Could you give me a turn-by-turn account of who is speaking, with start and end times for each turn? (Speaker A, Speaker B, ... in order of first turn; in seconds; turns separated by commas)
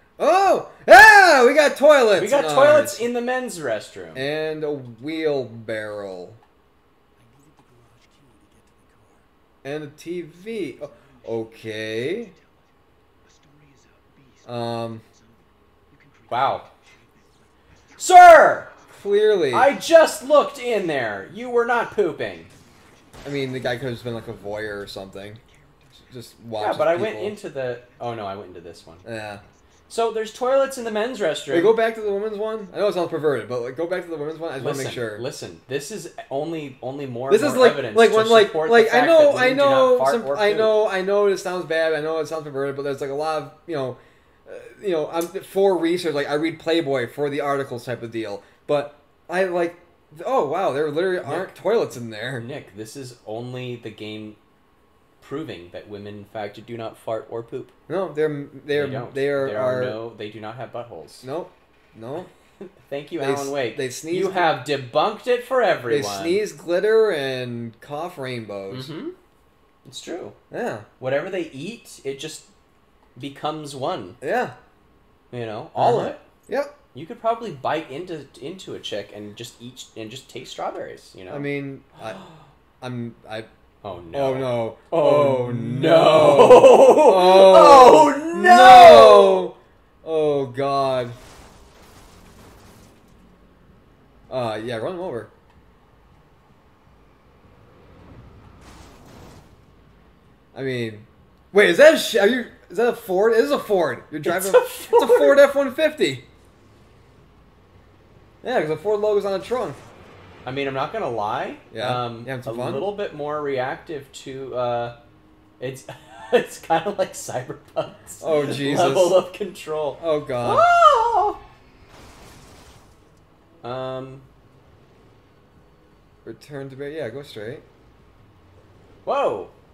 Speaker A: 0.2-3.1, Speaker B: 2.1-4.3, Speaker A: 4.1-6.4, Speaker C: 7.1-9.3, Speaker A: 9.6-12.3, Speaker C: 10.2-33.2, Speaker A: 14.4-15.0, Speaker B: 16.3-16.7, Speaker B: 18.0-18.7, Speaker A: 18.9-19.7, Speaker B: 19.5-22.5, Speaker A: 23.2-25.4, Speaker A: 26.1-27.4, Speaker B: 26.6-29.0, Speaker A: 29.0-29.4, Speaker B: 29.9-31.8, Speaker A: 31.5-35.3, Speaker B: 34.5-40.8, Speaker A: 37.3-52.5, Speaker B: 51.2-51.6, Speaker B: 52.3-54.4, Speaker B: 55.2-57.7, Speaker A: 57.9-60.0, Speaker B: 58.7-61.3, Speaker A: 61.2-62.3, Speaker B: 62.6-66.4, Speaker A: 63.2-64.6, Speaker A: 65.9-68.9, Speaker B: 68.7-69.2, Speaker B: 69.8-70.3, Speaker A: 70.5-70.9, Speaker B: 71.0-72.5, Speaker B: 73.2-74.2, Speaker A: 74.2-74.5, Speaker B: 75.3-76.2, Speaker A: 75.8-76.7, Speaker B: 76.9-81.5, Speaker A: 81.3-82.2, Speaker A: 82.8-83.5, Speaker B: 83.8-89.5, Speaker A: 84.1-91.2, Speaker A: 94.3-95.3, Speaker A: 100.5-106.2, Speaker B: 104.2-105.4, Speaker A: 108.4-109.8, Speaker B: 110.4-115.0, Speaker A: 111.7-112.9, Speaker B: 115.6-121.4, Speaker A: 118.2-119.2, Speaker A: 120.0-120.7, Speaker B: 123.6-124.2, Speaker A: 126.2-127.6, Speaker B: 129.0-129.5